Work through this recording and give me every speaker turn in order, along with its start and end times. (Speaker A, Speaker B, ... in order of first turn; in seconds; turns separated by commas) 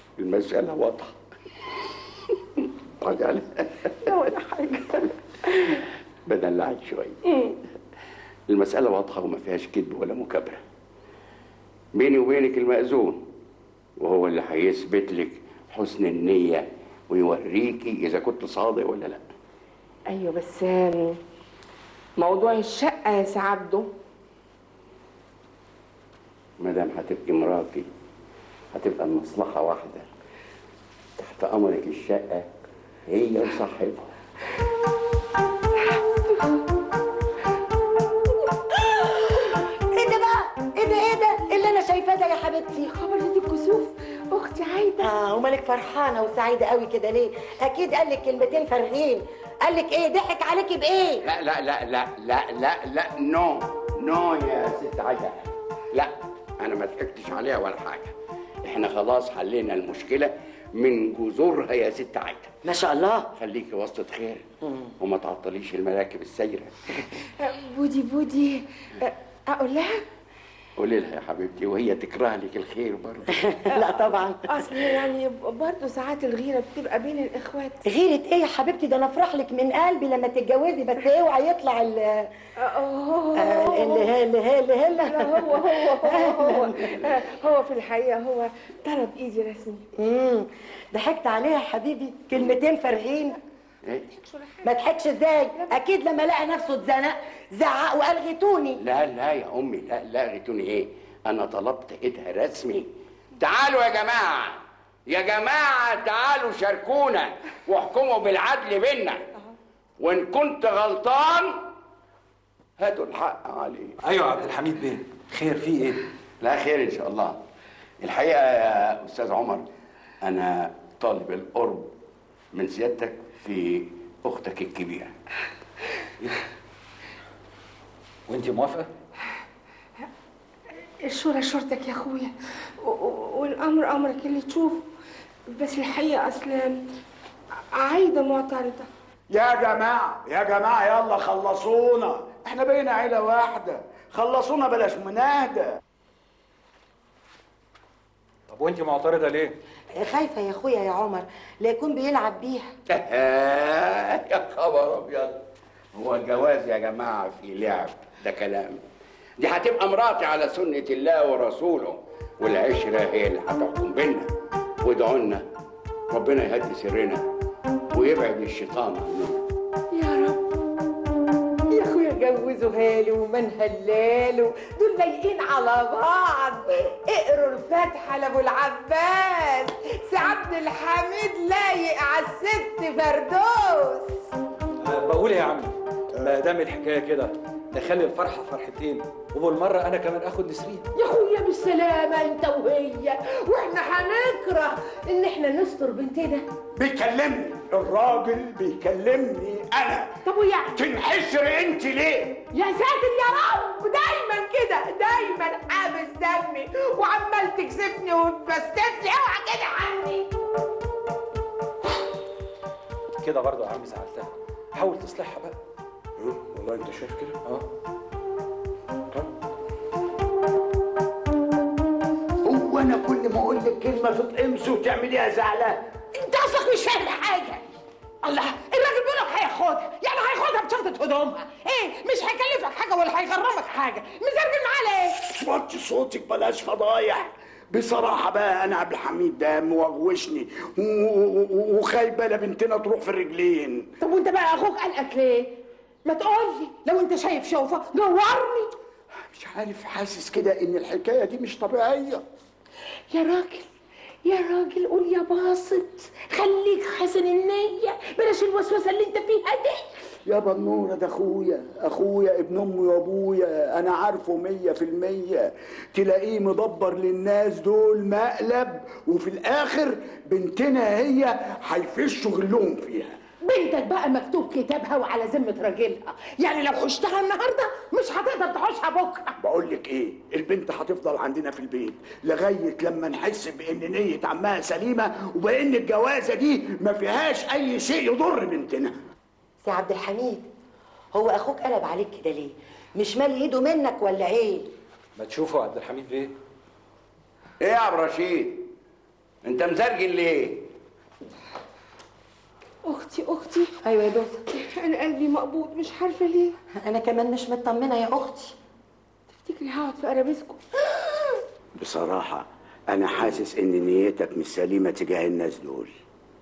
Speaker A: 0.2-1.1, Speaker A: 3.0-4.1, Speaker B: 4.0-5.8, Speaker A: 6.2-7.2, Speaker A: 8.5-10.6, Speaker A: 11.9-13.2, Speaker A: 14.0-19.2, Speaker B: 20.1-21.2, Speaker B: 22.2-23.9, Speaker A: 26.6-27.9, Speaker A: 28.7-30.1, Speaker A: 31.2-32.5, Speaker A: 33.1-34.1, Speaker B: 35.7-36.6, Speaker C: 38.9-42.9, Speaker B: 42.9-45.1, Speaker C: 45.0-51.2, Speaker A: 51.2-58.1, Speaker A: 58.6-62.5, Speaker C: 62.6-63.3, Speaker A: 63.4-64.4, Speaker C: 64.6-64.9, Speaker A: 65.0-67.0, Speaker B: 67.4-70.0, Speaker A: 70.8-73.3, Speaker C: 73.3-74.8, Speaker B: 74.5-77.8, Speaker C: 77.8-82.3, Speaker B: 82.6-84.1, Speaker C: 83.3-87.0, Speaker B: 85.0-89.8, Speaker C: 90.0-93.4, Speaker B: 94.1-94.7, Speaker C: 94.6-98.8, Speaker A: 98.8-109.2, Speaker A: 110.0-111.6, Speaker A: 112.8-114.0, Speaker D: 114.0-116.0, Speaker A: 116.4-117.4, Speaker A: 118.0-119.7, Speaker A: 120.2-121.9, Speaker A: 122.5-125.1, Speaker D: 128.3-128.9, Speaker B: 131.0-134.8, Speaker B: 135.5-136.8, Speaker B: 137.7-138.9, Speaker E: 139.3-145.8, Speaker D: 148.5-149.6, Speaker C: 149.9-152.7, Speaker A: 152.9-155.4, Speaker A: 155.9-158.8, Speaker A: 159.4-165.4, Speaker A: 166.1-167.2, Speaker A: 167.9-169.4, Speaker B: 169.9-170.4, Speaker F: 171.7-184.1, Speaker D: 184.8-190.9, Speaker F: 190.9-196.4, Speaker E: 196.8-200.1, Speaker F: 200.2-200.8, Speaker E: 200.7-202.4, Speaker F: 202.5-210.3, Speaker D: 213.2-215.6, Speaker E: 216.2-217.4, Speaker E: 222.4-225.8, Speaker F: 226.1-227.7, Speaker F: 228.2-235.2, Speaker E: 235.2-243.9, Speaker F: 244.0-248.7, Speaker E: 249.3-252.2, Speaker F: 253.1-253.7, Speaker F: 254.2-259.9, Speaker E: 260.2-273.2, Speaker F: 273.4-279.3, Speaker E: 279.4-288.9, Speaker C: 289.6-290.5, Speaker C: 291.1-294.7, Speaker D: 295.1-296.3, Speaker A: 297.6-298.6, Speaker A: 299.4-300.7, Speaker B: 302.8-303.8, Speaker C: 303.8-304.4, Speaker B: 304.5-306.6, Speaker C: 306.8-308.6, Speaker B: 309.3-310.6, Speaker E: 311.8-315.9